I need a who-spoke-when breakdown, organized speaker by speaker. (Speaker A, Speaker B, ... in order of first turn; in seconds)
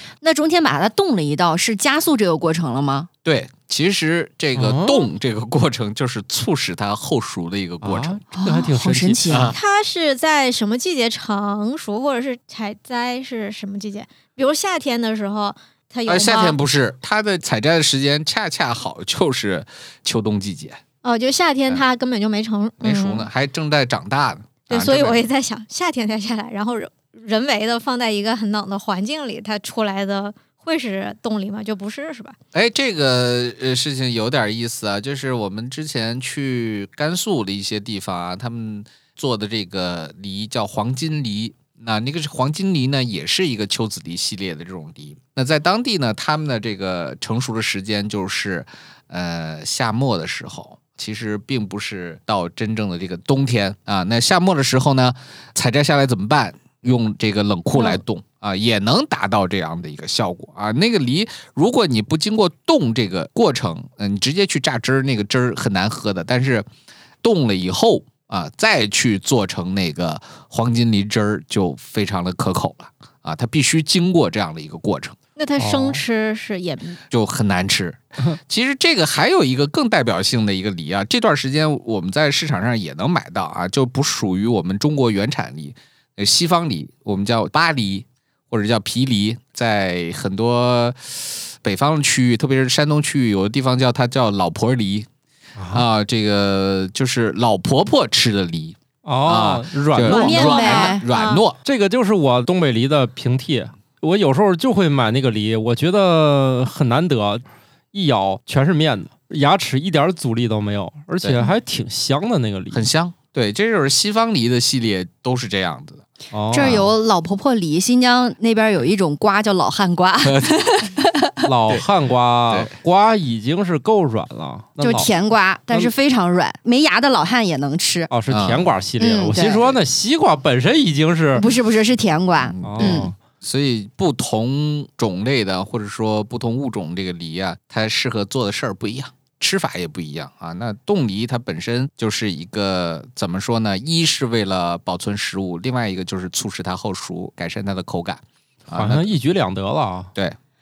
Speaker A: 0.2-3.1, 8.3-9.6, 100.0-101.1, 116.5-121.4, 124.8-128.1, 129.0-129.8, 131.3-133.1
Speaker B: 3.2-8.2, 9.3-9.6, 16.1-20.8, 22.8-25.2, 32.5-66.7, 67.2-75.2, 77.1-95.1, 95.7-101.6, 112.7-116.0, 128.3-128.7, 132.4-149.1
Speaker C: 4.5-5.1, 7.8-9.2, 75.6-76.0, 95.6-95.9, 99.0-100.3, 101.6-112.9, 116.3-116.9, 121.4-125.1, 128.1-131.5, 132.6-133.2, 148.7-150.1
Speaker D: 9.5-16.6, 21.0-23.3, 24.7-32.4, 75.4-77.0, 100.1-101.4